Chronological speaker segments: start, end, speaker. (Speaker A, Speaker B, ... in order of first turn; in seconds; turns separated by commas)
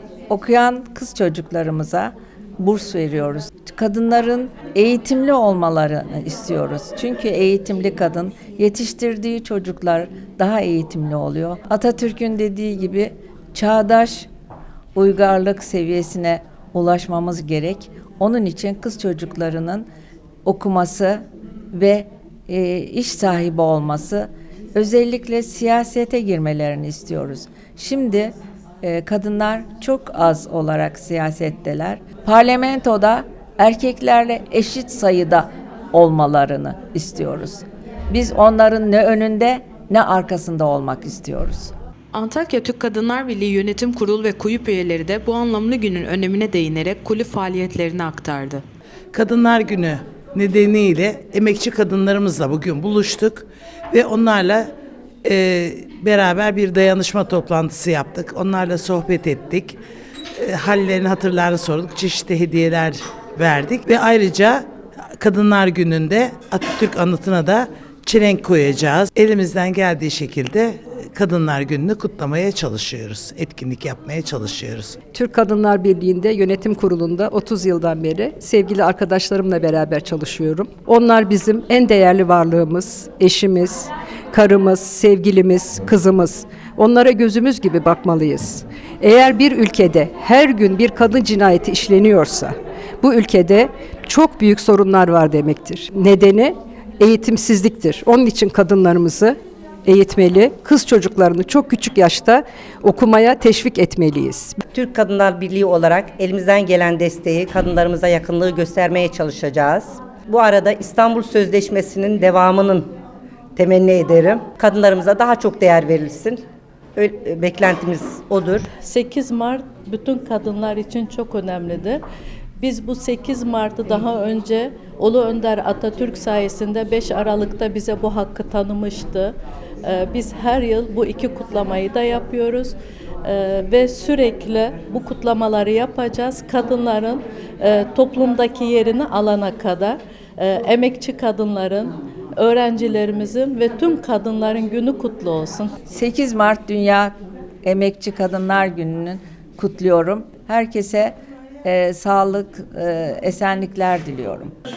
Speaker A: 0.3-14.3, Speaker A: 14.9-19.9, Speaker A: 20.4-41.7, Speaker B: 42.1-48.6, Speaker C: 49.1-54.7, Speaker C: 55.2-59.8, Speaker C: 60.4-64.7, Speaker C: 65.2-75.0, Speaker D: 75.1-104.6, Speaker E: 104.7-112.9, Speaker E: 113.5-116.4, Speaker E: 117.0-118.7, Speaker F: 118.8-122.0, Speaker F: 122.6-145.7, Speaker A: 145.9-154.5